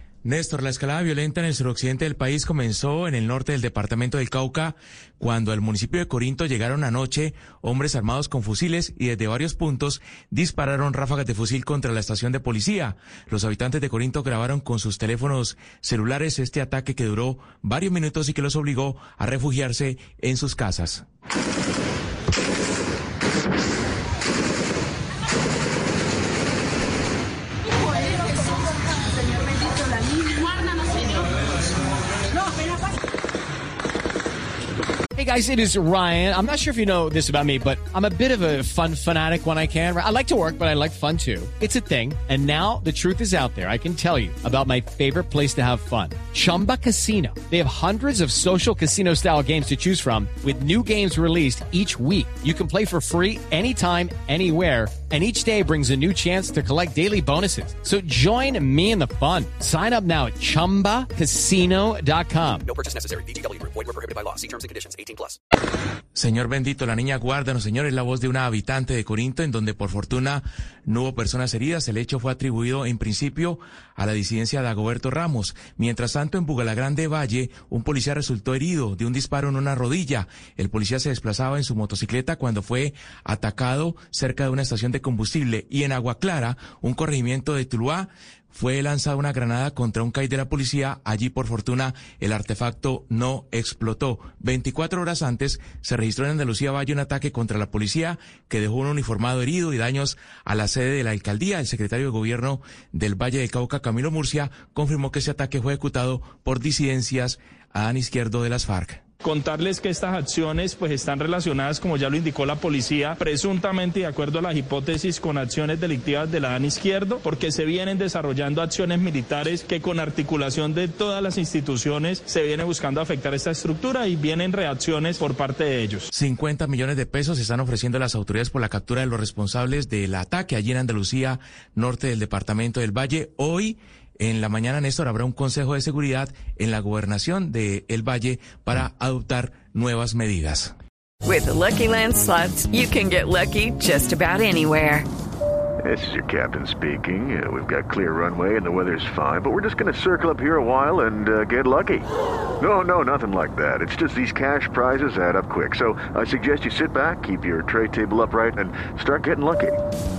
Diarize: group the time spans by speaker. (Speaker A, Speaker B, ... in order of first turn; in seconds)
Speaker A: 0.2-21.0, 66.2-109.0, 126.1-140.7
Speaker B: 35.1-62.6
Speaker C: 62.7-65.4
Speaker D: 109.2-126.1
Speaker E: 141.2-145.1
Speaker F: 145.8-152.1, 152.6-159.8